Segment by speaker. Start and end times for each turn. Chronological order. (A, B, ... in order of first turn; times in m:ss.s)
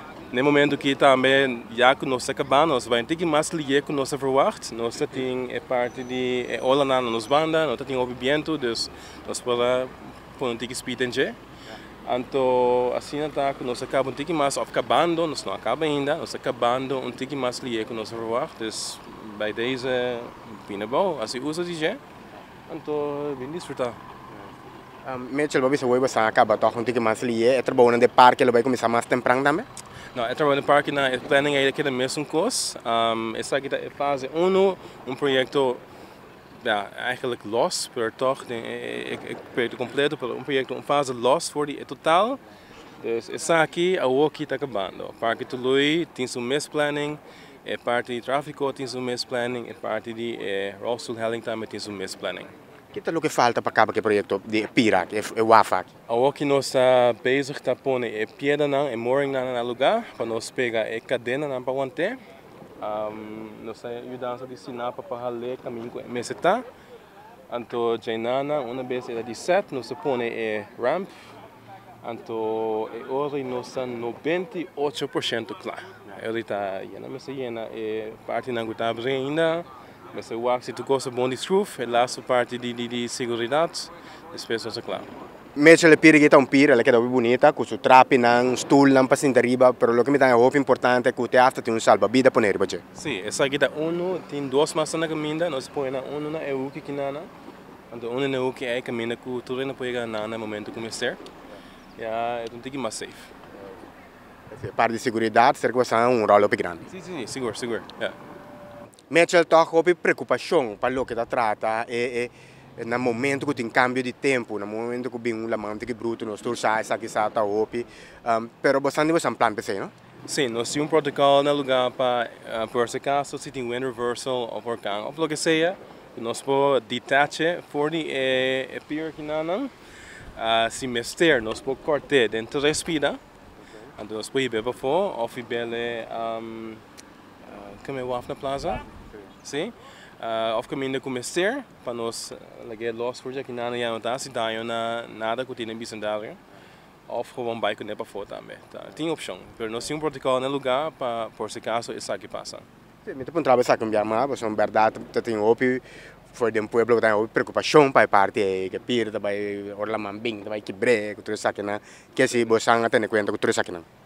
0:00.3-0:11.4 A
0:12.0-0:22.0 A
0:22.7-0:24.0 A
0:25.0-0:29.7 B
0:30.1-0:35.8 A
0:36.6-0:42.4 A
0:43.0-0:52.5 A
0:52.9-0:55.9 B
0:56.1-1:02.2 A
1:02.8-1:06.6 A
1:07.5-1:11.2 A
1:12.0-1:25.1 A
1:25.6-1:32.8 B
1:32.9-1:37.3 A
1:37.9-1:41.2 A
1:42.0-1:43.3 A
1:44.5-1:46.8 B
1:46.8-1:48.2 A
1:49.1-1:59.9 B
2:00.3-2:09.7 A
2:10.3-2:13.2 A
2:13.9-2:16.8 A
2:17.4-2:18.9 A
2:19.4-2:26.4 A
2:27.1-2:32.6 A
2:33.0-2:43.8 B